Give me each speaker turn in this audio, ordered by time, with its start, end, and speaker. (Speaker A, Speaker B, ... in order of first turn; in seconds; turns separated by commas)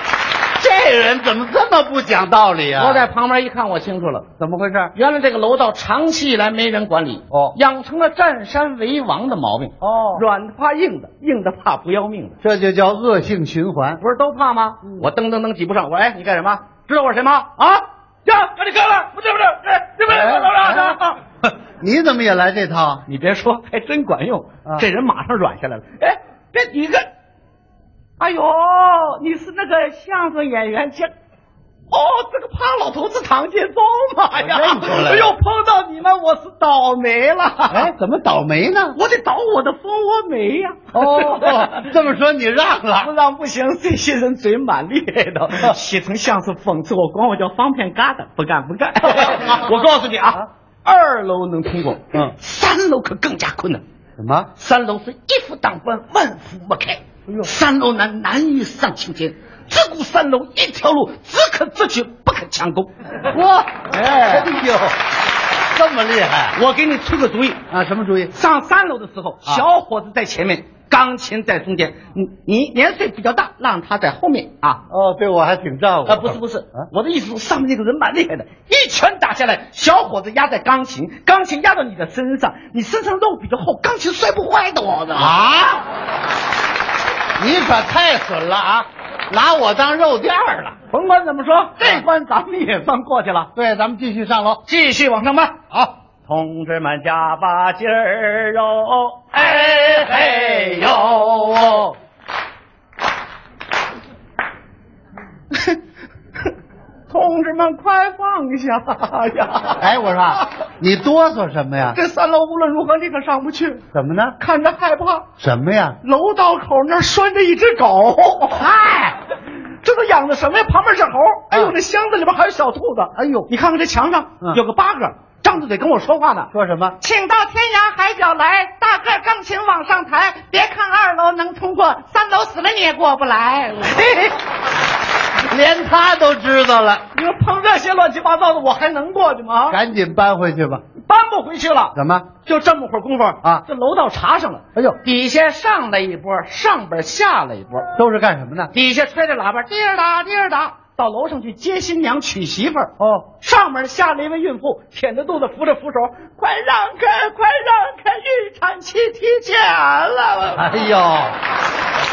Speaker A: 0.6-3.1, Speaker B: 2.8-4.3, Speaker A: 4.4-4.9, Speaker B: 4.9-12.4, Speaker A: 9.8-10.2, Speaker A: 12.4-14.0, Speaker B: 14.0-21.2, Speaker A: 20.1-23.0, Speaker B: 23.1-27.1, Speaker B: 28.2-31.1, Speaker B: 31.9-37.9, Speaker A: 34.3-35.4, Speaker A: 37.7-39.0, Speaker B: 39.0-41.9, Speaker A: 40.9-43.1, Speaker B: 43.0-53.8, Speaker A: 49.2-49.7, Speaker A: 54.2-54.5, Speaker B: 54.5-64.5, Speaker A: 63.2-65.0, Speaker A: 65.6-66.6, Speaker B: 66.5-67.6, Speaker A: 67.7-68.3, Speaker B: 68.3-74.8, Speaker A: 74.9-76.4, Speaker B: 76.1-85.4, Speaker A: 85.1-85.8, Speaker A: 87.4-90.8, Speaker B: 90.9-93.5, Speaker A: 91.8-92.1, Speaker A: 93.5-94.6, Speaker B: 94.7-95.6, Speaker B: 96.2-101.0, Speaker A: 99.4-101.9, Speaker B: 105.5-105.8, Speaker B: 107.1-110.5, Speaker A: 109.8-112.0, Speaker B: 111.8-113.8, Speaker A: 113.9-114.3, Speaker B: 114.4-115.3, Speaker A: 115.4-116.0, Speaker B: 116.0-119.2, Speaker B: 119.8-134.4, Speaker A: 123.2-123.5, Speaker A: 126.5-127.0, Speaker A: 135.5-137.0, Speaker B: 137.1-139.8, Speaker A: 139.7-140.8, Speaker B: 141.0-147.9, Speaker A: 141.9-142.3, Speaker A: 147.9-148.7, Speaker B: 148.7-160.8, Speaker A: 153.0-153.3, Speaker A: 160.6-161.4